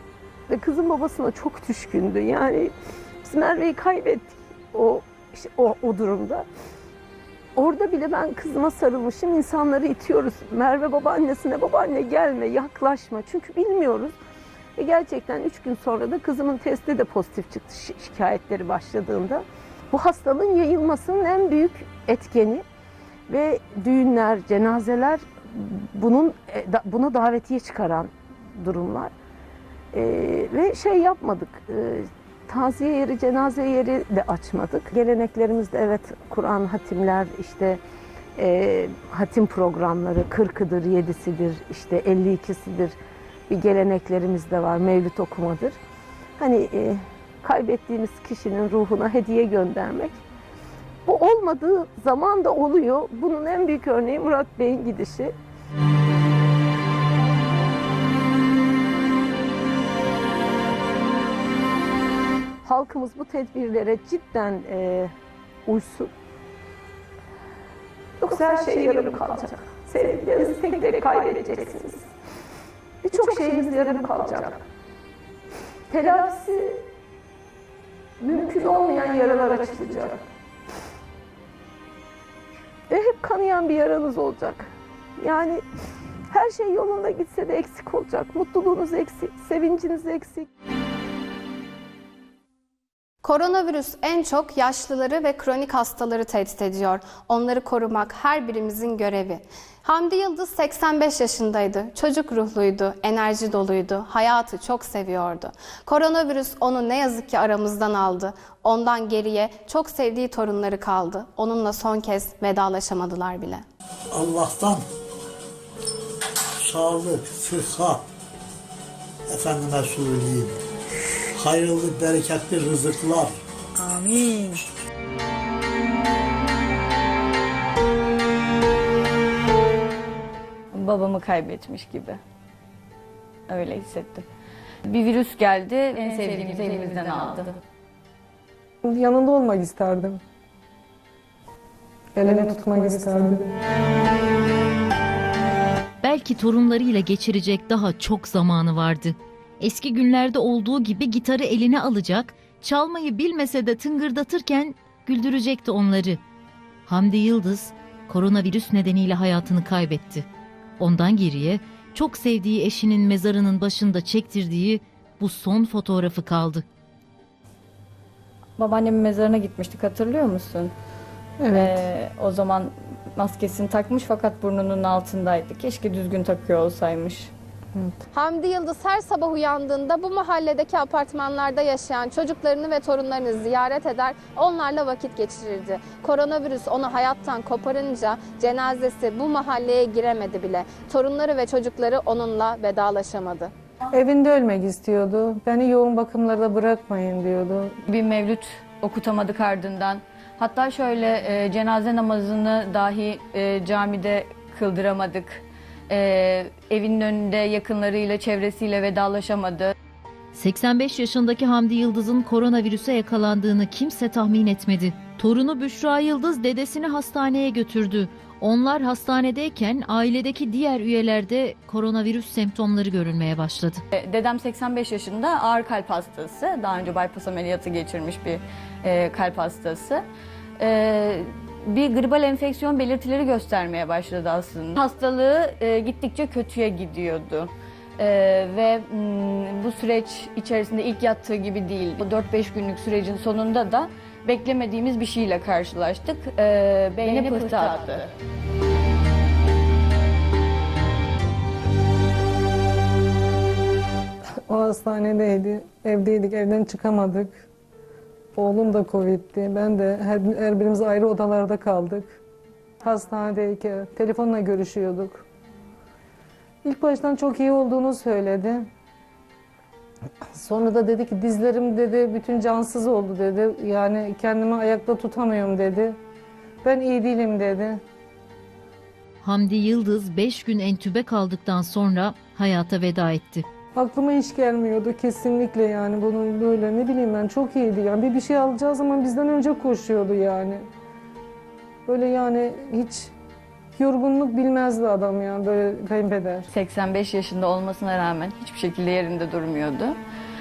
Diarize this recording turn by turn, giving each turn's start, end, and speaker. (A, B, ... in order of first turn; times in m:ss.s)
0:00.5-0:06.4 A
0:07.6-0:14.1 A
0:14.8-0:22.6 A
0:23.3-0:29.1 A
0:29.9-0:37.8 A
0:38.4-0:43.0 A
0:43.5-0:45.8 A
0:46.4-0:50.2 A
0:51.0-0:55.3 A
1:02.6-1:05.1 A
1:05.6-1:06.1 A
1:08.2-1:12.1 A
1:13.0-1:14.6 A
1:15.9-1:16.8 A
1:18.2-1:20.2 A
1:22.9-1:25.6 A
1:26.3-1:30.5 A
1:33.2-1:53.6 B
1:54.1-1:54.8 C
1:56.6-1:58.0 C
1:59.3-2:00.6 C
2:01.3-2:03.4 C
2:03.7-2:04.6 D
2:10.7-2:12.2 D
2:13.5-2:14.2 D
2:14.8-2:17.6 D
2:18.8-2:20.2 E
2:22.1-2:23.5 E
2:26.0-2:36.2 F
2:36.8-2:40.2 F
2:40.8-2:46.6 F
2:48.6-2:50.7 D
2:51.4-2:51.8 E
2:51.5-2:57.3 D
2:58.1-3:13.5 B
3:13.9-3:17.8 E
3:17.9-3:29.7 D
3:30.3-3:43.8 F
3:44.0-3:50.0 D
3:50.6-4:08.1 D
4:14.5-4:17.5 E
4:18.3-4:22.2 E
4:22.8-4:25.2 E
4:26.6-4:28.7 E
4:30.3-4:36.0 E
4:36.6-4:37.8 E
4:39.2-4:43.4 F
4:43.7-4:50.6 E
4:51.8-4:53.1 E
4:53.8-4:56.5 E
4:56.5-5:00.0 D